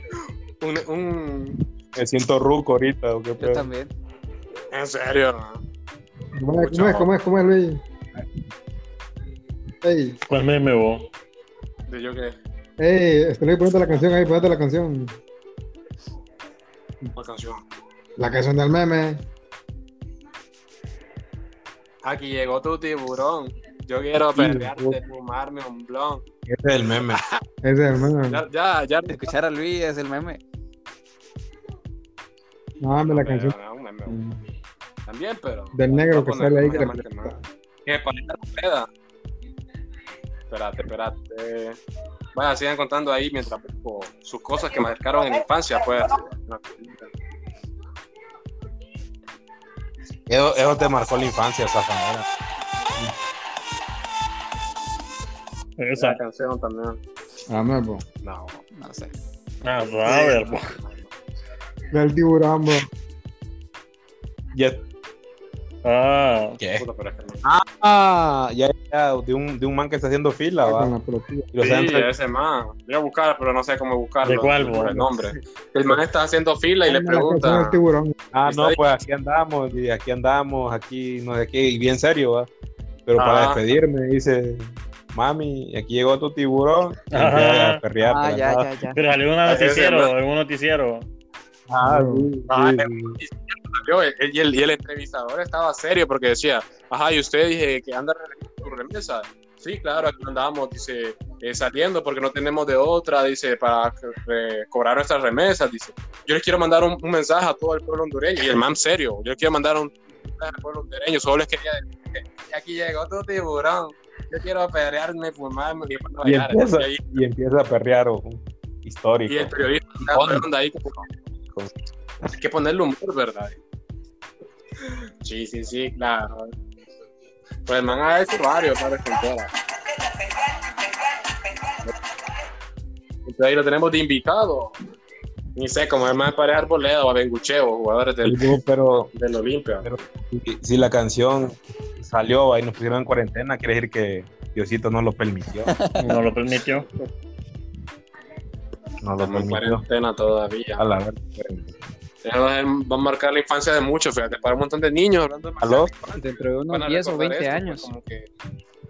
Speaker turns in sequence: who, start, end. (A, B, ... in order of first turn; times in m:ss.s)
0:00.6-0:01.6 A
0:01.9-0:03.7 B
0:03.4-0:03.9 C
0:04.7-0:05.6 A
0:06.3-0:07.8 D
0:06.6-0:07.1 A
0:09.8-0:10.2 D
0:10.3-0:11.1 E
0:11.9-0:12.4 A
0:12.8-0:15.2 D
0:17.2-0:17.6 A
0:18.2-0:19.2 D
0:22.0-0:26.2 A
0:24.4-0:25.0 D
0:26.5-0:27.2 B
0:27.0-0:27.4 A
0:27.6-0:28.4 D
0:28.3-0:29.3 A
0:29.1-0:30.4 C
0:32.8-0:34.4 D
0:33.1-0:34.2 A
0:35.0-0:37.3 A
0:35.7-0:37.4 D
0:37.8-0:38.9 A
0:40.5-0:41.8 A
0:42.3-0:47.1 A
0:50.3-0:52.3 B
0:55.8-0:56.2 E
0:55.9-0:57.0 A
0:57.5-0:58.0 D
0:58.2-0:58.6 A
0:58.7-0:59.1 C
0:59.6-1:00.8 E
1:00.0-1:01.1 A
1:01.9-1:02.9 D
1:04.5-1:04.8 B
1:05.8-1:06.6 E
1:06.6-1:06.8 B
1:06.8-1:07.4 A
1:07.4-1:10.9 B
1:10.6-1:11.5 D
1:11.5-1:12.1 B
1:11.6-1:17.8 A
1:14.2-1:15.0 E
1:14.8-1:15.3 B
1:16.8-1:18.2 D
1:18.3-1:22.5 B
1:18.4-1:18.9 A
1:23.0-1:28.7 B
1:23.2-1:23.6 A
1:27.1-1:27.8 E
1:28.0-1:29.0 C
1:29.0-1:31.1 E
1:29.4-1:30.1 A
1:31.7-1:33.2 B
1:31.8-1:32.3 D
1:32.5-1:57.2 A
1:56.2-2:00.4 B
1:59.3-2:01.1 A
2:02.3-2:03.6 A
2:04.8-2:06.5 A
2:07.6-2:09.5 A
2:13.2-2:14.8 A
2:15.5-2:18.6 A
2:18.2-2:19.1 B
2:19.1-2:19.9 A
2:19.8-2:25.7 B
2:25.7-2:26.1 C
2:26.0-2:26.9 E
2:29.0-2:29.8 B
2:29.2-2:30.9 A
2:30.8-2:31.7 B
2:32.2-2:38.3 A
2:35.6-2:35.9 B
2:36.1-2:37.9 C